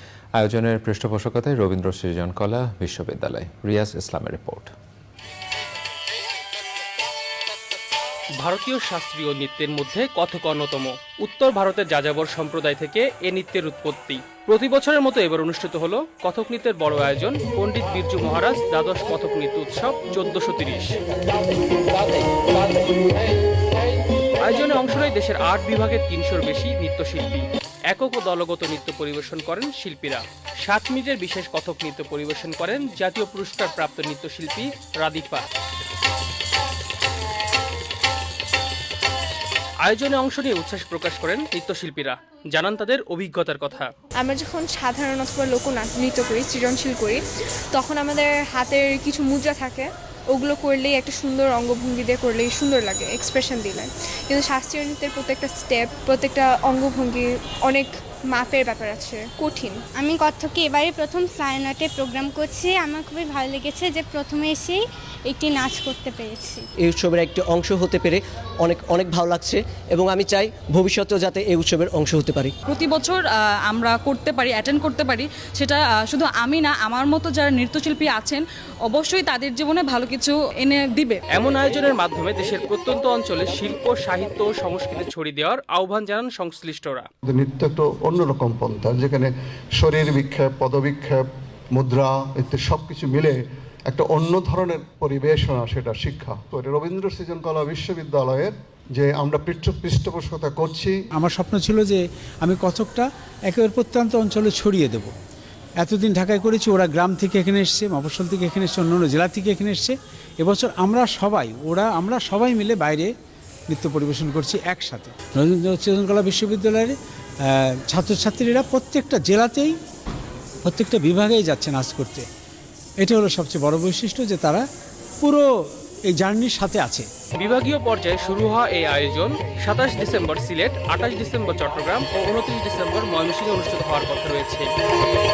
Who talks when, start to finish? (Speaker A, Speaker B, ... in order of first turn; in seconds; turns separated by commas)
Speaker A: 0.4-4.7, Speaker B: 8.4-21.0, Speaker B: 24.4-35.4, Speaker B: 39.8-43.9, Speaker C: 44.2-59.8, Speaker D: 60.0-66.6, Speaker E: 66.8-72.5, Speaker F: 72.8-81.2, Speaker B: 81.3-87.1, Speaker G: 87.3-101.0, Speaker H: 101.2-105.1, Speaker H: 105.8-113.1, Speaker H: 113.7-119.8, Speaker H: 120.6-122.3, Speaker H: 123.0-124.6, Speaker H: 126.1-127.1, Speaker B: 127.3-134.7